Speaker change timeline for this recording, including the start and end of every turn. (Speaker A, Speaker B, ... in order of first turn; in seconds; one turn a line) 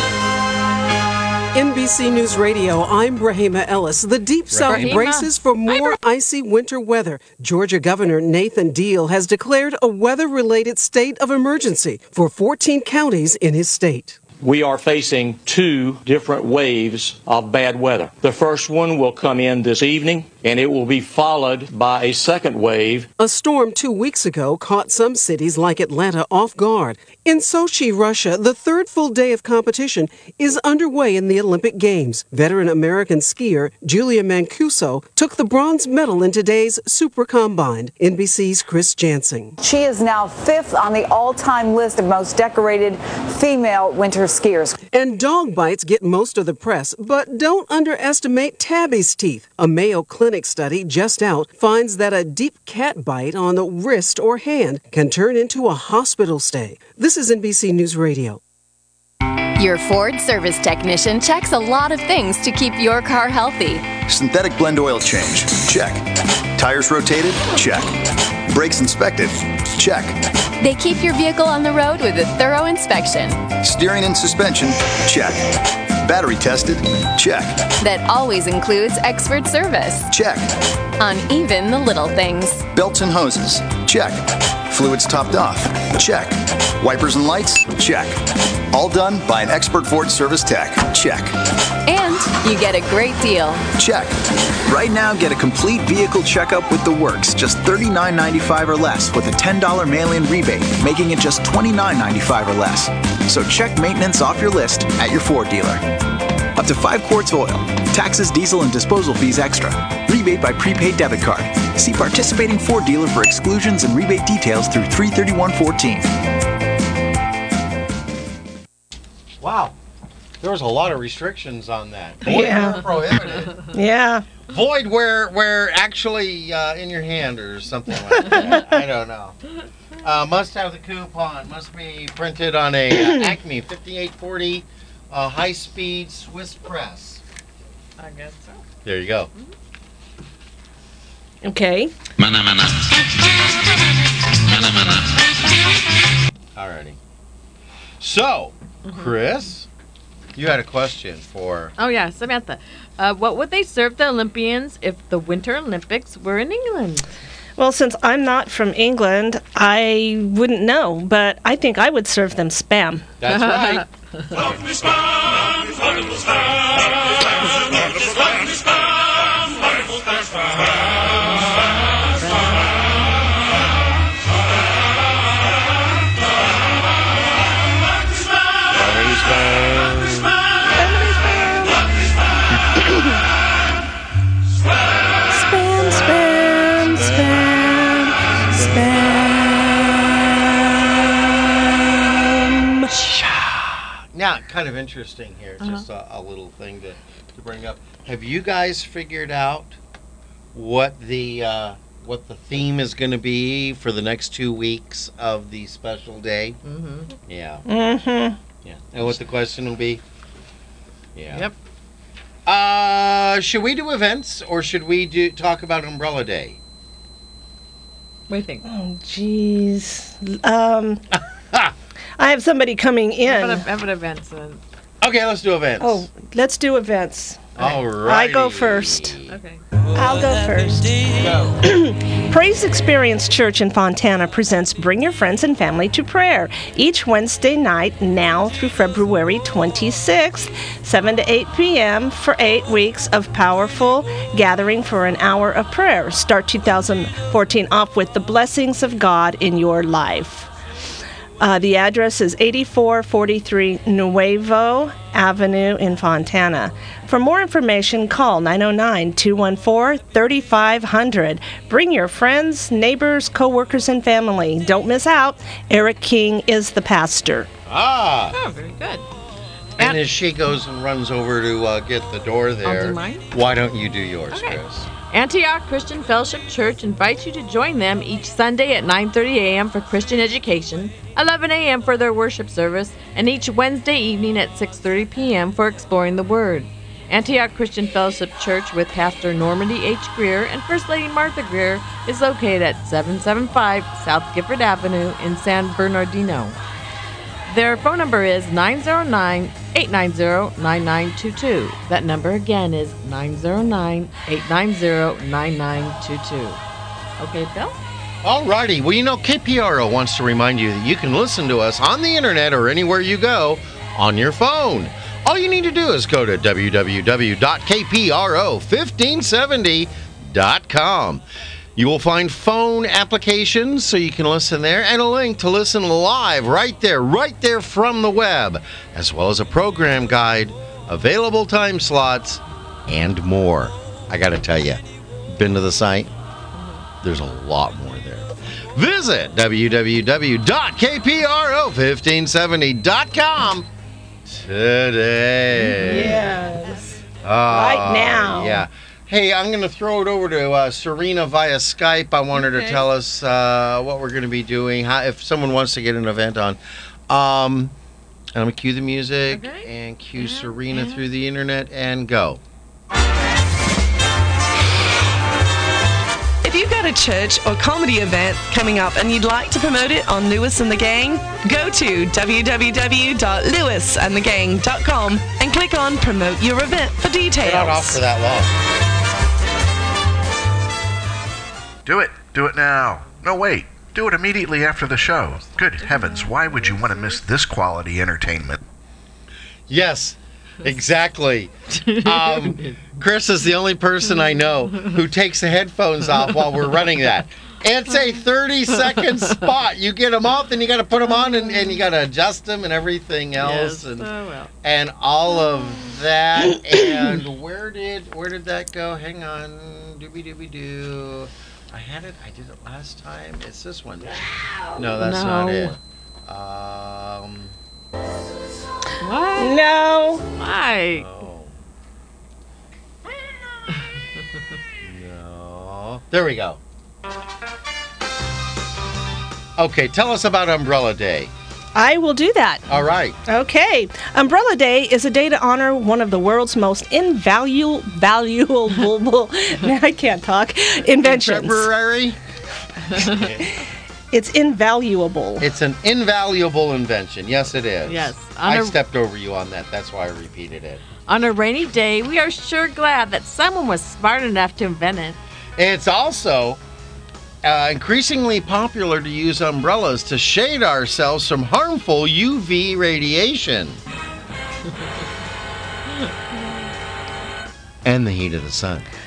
Speaker A: 1.5-14.2
Speaker B: 4.5-5.0
Speaker C: 4.7-6.0
Speaker D: 14.4-23.1
Speaker A: 23.2-39.6
Speaker E: 39.6-44.8
Speaker A: 44.8-58.4
Speaker F: 59.6-63.9
Speaker G: 64.0-70.2
Speaker F: 70.6-73.4
Speaker G: 73.6-77.7
Speaker F: 77.8-80.1
Speaker G: 80.1-80.6
Speaker F: 81.0-82.7
Speaker G: 82.7-91.3
Speaker F: 91.8-93.6
Speaker G: 93.8-105.8
Speaker G: 106.5-116.1
Speaker B: 119.4-119.8
Speaker B: 120.4-123.6
Speaker H: 122.2-123.0
Speaker H: 123.7-124.2
Speaker B: 124.5-129.4
Speaker H: 128.3-128.8
Speaker B: 130.0-137.2
Speaker C: 138.0-138.6
Speaker B: 138.8-139.3
Speaker H: 141.4-141.9
Speaker B: 146.5-147.0
Speaker B: 148.0-149.7
Speaker C: 148.8-149.1
Speaker B: 150.3-151.7
Speaker C: 151.8-157.1
Speaker H: 157.6-163.1
Speaker B: 163.2-163.8
Speaker C: 163.2-164.4
Speaker C: 172.2-172.6
Speaker B: 178.7-180.4
Speaker H: 180.7-181.8
Speaker B: 184.8-186.0
Speaker H: 185.3-189.7
Speaker B: 186.9-187.8
Speaker B: 188.5-189.3
Speaker H: 192.2-192.9
Speaker B: 194.1-199.8
Speaker C: 195.6-195.8
Speaker B: 200.5-206.6
Speaker C: 206.6-207.1
Speaker B: 207.2-207.7
Speaker H: 207.7-208.4
Speaker B: 208.6-210.0
Speaker B: 211.1-211.5
Speaker B: 212.4-216.6
Speaker C: 218.3-218.7
Speaker H: 218.7-221.1
Speaker H: 222.2-223.6
Speaker C: 223.2-224.6
Speaker B: 225.0-226.1
Speaker H: 225.8-229.1
Speaker B: 227.6-229.4
Speaker C: 229.3-229.6
Speaker H: 229.9-250.5
Speaker B: 231.1-231.6
Speaker H: 251.4-267.5
Speaker B: 267.7-268.4
Speaker C: 268.3-269.1
Speaker C: 269.8-270.0
Speaker B: 269.8-274.9
Speaker C: 272.6-273.3
Speaker C: 274.3-296.6
Speaker C: 297.5-306.6
Speaker C: 307.2-307.8
Speaker B: 308.2-321.2
Speaker B: 321.8-336.1
Speaker C: 336.5-336.8
Speaker B: 337.0-343.7
Speaker B: 344.2-346.2
Speaker C: 345.6-346.8
Speaker H: 345.8-346.9
Speaker B: 347.2-357.7
Speaker H: 347.5-348.6
Speaker C: 352.4-352.8
Speaker B: 358.3-362.4
Speaker C: 359.3-361.0
Speaker I: 366.4-378.0
Speaker B: 377.4-378.5
Speaker J: 381.9-388.6
Speaker C: 385.6-387.2
Speaker B: 389.7-404.1
Speaker C: 391.7-392.9
Speaker C: 399.0-399.3
Speaker C: 401.2-401.8
Speaker C: 403.4-404.5
Speaker B: 404.6-417.5
Speaker C: 414.9-415.8
Speaker C: 419.0-419.6
Speaker H: 419.4-420.2
Speaker C: 420.3-421.2
Speaker B: 420.9-421.5
Speaker B: 424.8-426.6
Speaker B: 429.6-431.3
Speaker H: 431.7-432.7
Speaker B: 432.7-433.2
Speaker H: 433.2-441.6
Speaker B: 441.0-442.2
Speaker C: 442.9-443.2
Speaker B: 443.0-443.4
Speaker H: 444.1-445.5
Speaker B: 445.4-450.8
Speaker C: 447.8-448.8
Speaker C: 451.1-455.2
Speaker B: 455.6-456.6
Speaker B: 457.4-463.8
Speaker B: 467.8-468.9